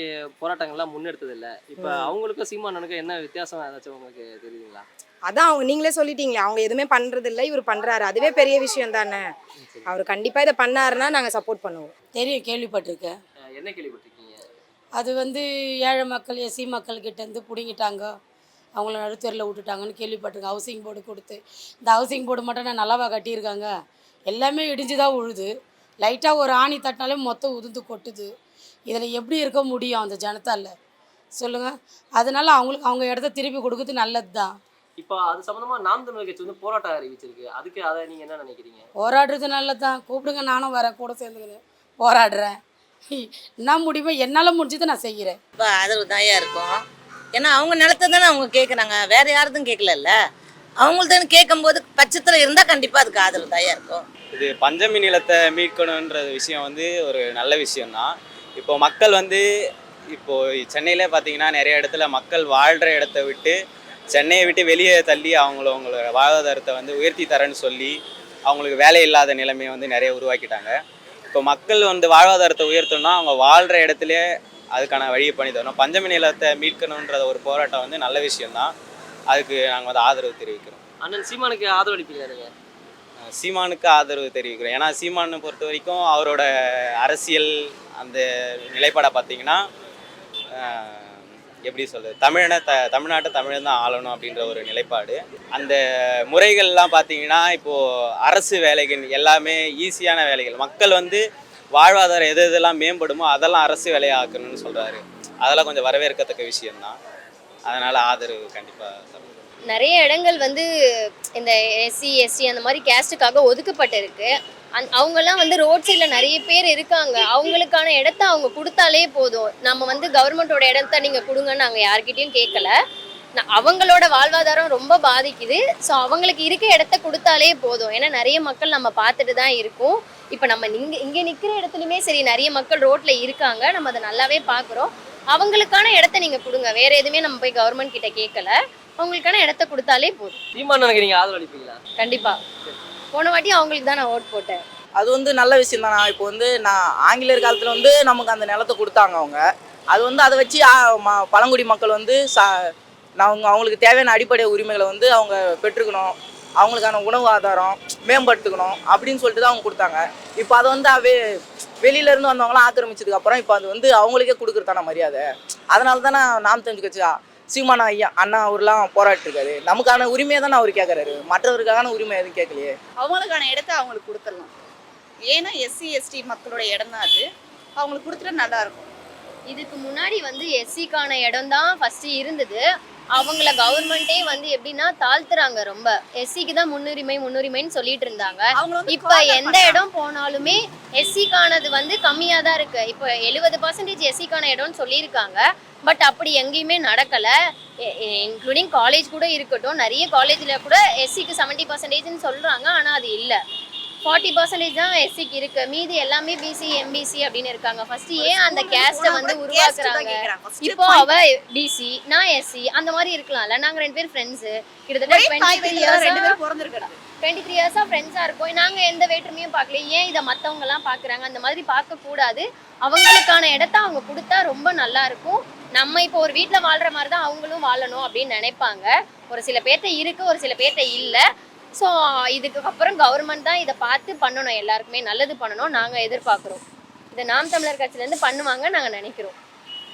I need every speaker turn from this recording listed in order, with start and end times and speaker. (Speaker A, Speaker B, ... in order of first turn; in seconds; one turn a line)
Speaker A: 0.4-4.8
Speaker B: 1.8-2.1
Speaker B: 5.3-9.3
Speaker B: 9.8-11.9
Speaker C: 12.2-13.2
Speaker A: 13.6-14.4
Speaker C: 15.0-18.1
Speaker C: 18.8-23.7
Speaker C: 24.3-25.5
Speaker C: 26.0-28.3
Speaker C: 28.9-30.8
Speaker C: 31.4-34.6
Speaker A: 35.0-38.9
Speaker C: 39.0-42.6
Speaker C: 43.1-45.4
Speaker D: 45.7-46.6
Speaker D: 47.4-50.0
Speaker D: 51.0-53.9
Speaker E: 54.3-59.4
Speaker E: 60.1-63.6
Speaker E: 64.1-68.0
Speaker E: 68.5-70.8
Speaker E: 71.3-74.2
Speaker E: 74.7-78.7
Speaker E: 79.3-80.8
Speaker A: 81.0-82.5
Speaker E: 83.3-86.5
Speaker E: 87.0-89.6
Speaker E: 90.6-95.8
Speaker E: 96.3-101.2
Speaker E: 101.8-107.0
Speaker E: 107.7-109.5
Speaker F: 109.7-110.7
Speaker F: 111.4-122.7
Speaker F: 123.4-140.4
Speaker A: 140.6-141.8
Speaker F: 142.0-142.4
Speaker F: 143.1-144.6
Speaker G: 144.9-161.2
Speaker G: 161.8-172.8
Speaker H: 173.0-174.5
Speaker H: 175.2-177.2
Speaker H: 177.8-178.9
Speaker F: 179.5-182.6
Speaker F: 183.1-197.3
Speaker H: 188.6-189.8
Speaker F: 197.9-203.4
Speaker F: 204.0-216.4
Speaker H: 208.2-211.1
Speaker H: 215.1-216.9
Speaker F: 217.2-231.2
Speaker F: 231.8-236.6
Speaker F: 237.1-239.4